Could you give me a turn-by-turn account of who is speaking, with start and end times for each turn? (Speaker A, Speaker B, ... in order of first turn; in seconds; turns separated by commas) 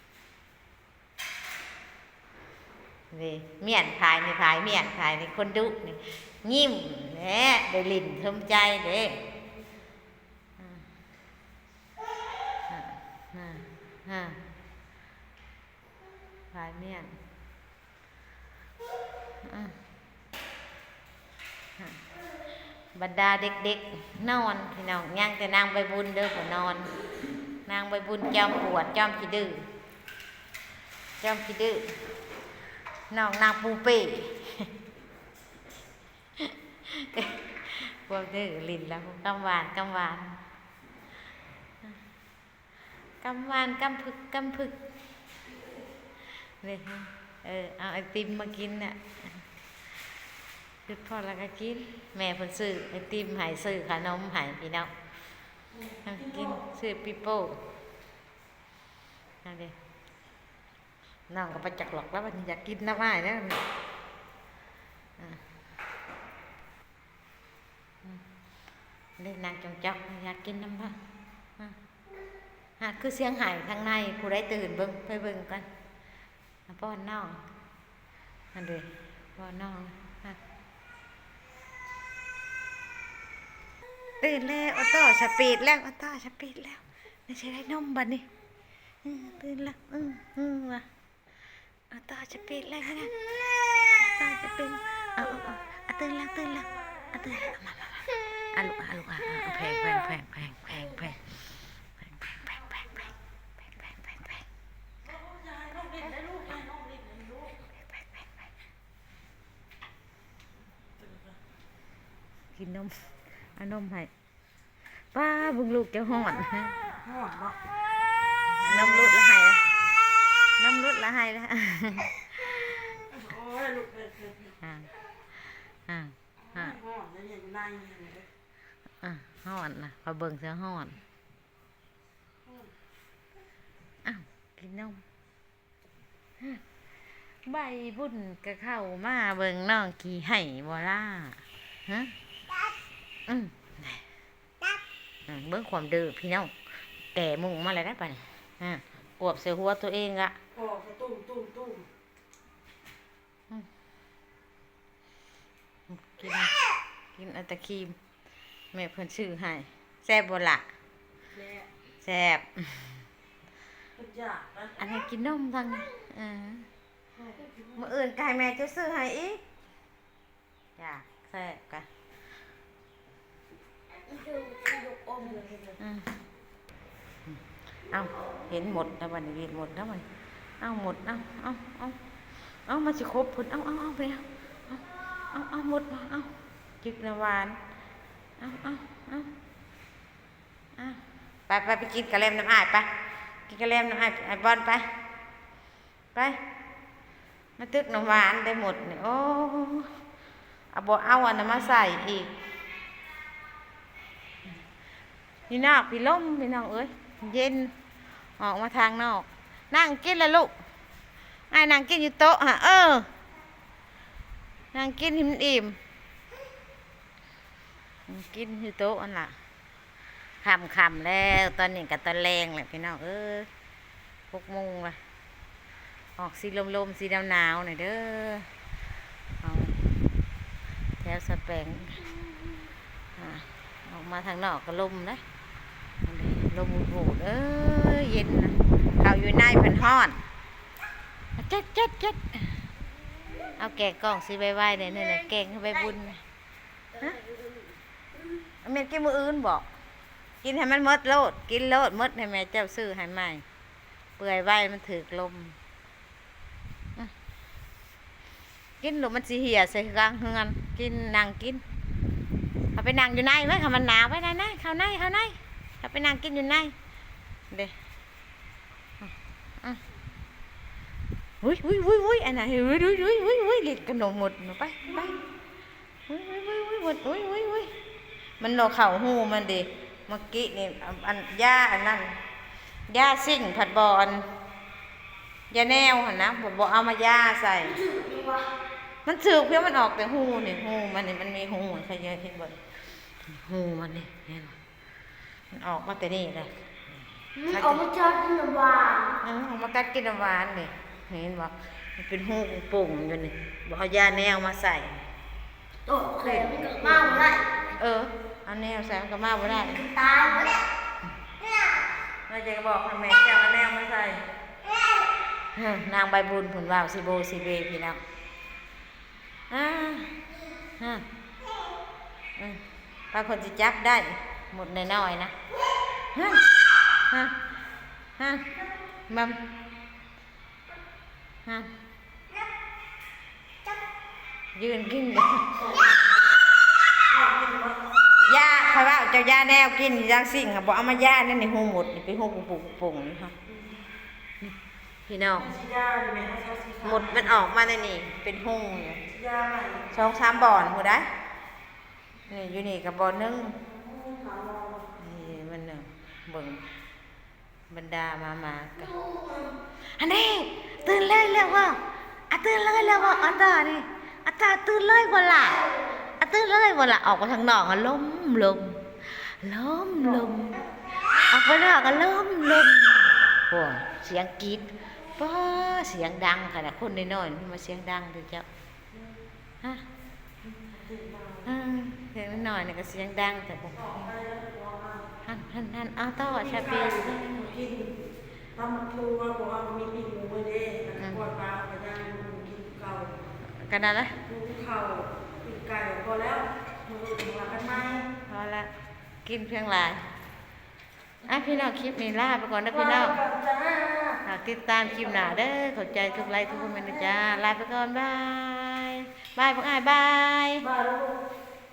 Speaker A: 3.1-9.2, Speaker A: 10.6-10.8, Speaker A: 12.7-14.4, Speaker A: 16.5-17.1, Speaker A: 19.4-19.8, Speaker A: 22.9-26.9, Speaker A: 27.6-29.6, Speaker A: 31.2-32.0, Speaker A: 33.1-34.7, Speaker A: 36.4-40.4, Speaker A: 43.2-44.8, Speaker A: 46.6-49.4, Speaker A: 50.9-54.9, Speaker A: 56.0-57.6, Speaker A: 59.4-59.7, Speaker A: 61.3-63.6, Speaker A: 69.2-71.0, Speaker A: 72.8-75.7, Speaker A: 76.7-77.4, Speaker A: 78.5-80.4, Speaker A: 84.2-88.2, Speaker A: 89.0-90.9, Speaker A: 91.9-103.1, Speaker A: 103.6-104.4, Speaker B: 105.2-107.5, Speaker A: 107.6-108.4, Speaker A: 112.5-114.1, Speaker A: 115.0-116.8, Speaker B: 117.0-117.6, Speaker A: 118.5-119.7, Speaker A: 120.6-122.7, Speaker B: 123.1-124.5, Speaker A: 124.6-124.9, Speaker A: 125.9-126.8, Speaker B: 126.5-128.3, Speaker A: 129.0-131.0, Speaker A: 134.0-135.0, Speaker A: 137.5-142.1, Speaker A: 143.3-144.0, Speaker A: 145.2-146.5, Speaker A: 147.1-150.3, Speaker B: 150.5-151.9, Speaker A: 155.9-156.6, Speaker A: 157.1-158.0, Speaker A: 158.7-160.6, Speaker A: 162.0-163.0, Speaker B: 164.0-164.8, Speaker A: 164.8-166.7, Speaker A: 167.7-169.4, Speaker A: 170.8-171.9, Speaker B: 174.1-175.7, Speaker A: 175.8-176.1, Speaker A: 177.3-180.1, Speaker A: 180.6-187.6, Speaker A: 188.4-189.3, Speaker A: 190.8-192.9, Speaker A: 193.5-194.9, Speaker A: 196.1-196.4, Speaker A: 197.6-199.9, Speaker A: 200.7-202.3, Speaker A: 205.5-207.7, Speaker A: 208.4-210.5, Speaker A: 211.5-213.1, Speaker A: 214.7-215.8, Speaker A: 218.1-219.3, Speaker A: 220.4-223.5, Speaker A: 224.3-225.0, Speaker A: 226.2-228.5, Speaker A: 229.4-229.8, Speaker A: 231.0-232.0, Speaker A: 233.2-235.2, Speaker A: 236.0-240.2, Speaker A: 241.4-242.6, Speaker A: 243.4-246.2, Speaker A: 247.0-247.2, Speaker A: 248.6-249.7, Speaker A: 250.4-253.4, Speaker A: 254.2-255.6, Speaker A: 258.8-261.6, Speaker A: 262.7-266.7, Speaker A: 269.0-269.8, Speaker A: 271.4-275.2, Speaker A: 276.1-277.7, Speaker A: 278.4-282.1, Speaker A: 282.9-284.3, Speaker A: 285.5-287.9, Speaker C: 287.9-288.5, Speaker A: 289.0-292.6, Speaker A: 293.2-294.6, Speaker A: 295.5-296.5, Speaker A: 297.4-297.9, Speaker C: 297.4-299.2, Speaker A: 299.2-305.0, Speaker C: 305.9-307.4, Speaker A: 306.1-309.9, Speaker C: 309.8-310.6, Speaker A: 312.3-314.2, Speaker A: 315.5-318.0, Speaker A: 319.5-320.2, Speaker A: 320.8-321.0, Speaker A: 322.4-325.3, Speaker A: 326.1-327.4, Speaker A: 328.2-328.6, Speaker A: 329.1-329.4, Speaker A: 331.4-331.7, Speaker A: 334.5-335.6, Speaker B: 337.1-337.8, Speaker A: 338.2-343.3, Speaker A: 345.1-345.5, Speaker B: 345.4-347.3, Speaker A: 346.8-349.0, Speaker B: 349.1-349.9, Speaker A: 349.9-351.1, Speaker A: 352.3-353.6, Speaker B: 353.7-354.9, Speaker A: 354.9-356.6, Speaker A: 357.7-359.1, Speaker A: 359.8-365.6, Speaker A: 366.1-378.4, Speaker B: 380.6-381.5, Speaker A: 381.4-384.1, Speaker B: 383.8-385.1, Speaker A: 385.2-387.5, Speaker B: 386.3-387.9, Speaker B: 388.5-393.1, Speaker A: 391.0-391.3, Speaker A: 393.5-394.2, Speaker B: 394.3-398.0, Speaker A: 397.9-398.7, Speaker A: 399.2-400.0, Speaker A: 401.2-403.2, Speaker B: 402.9-404.2, Speaker A: 404.2-410.7, Speaker B: 410.6-411.1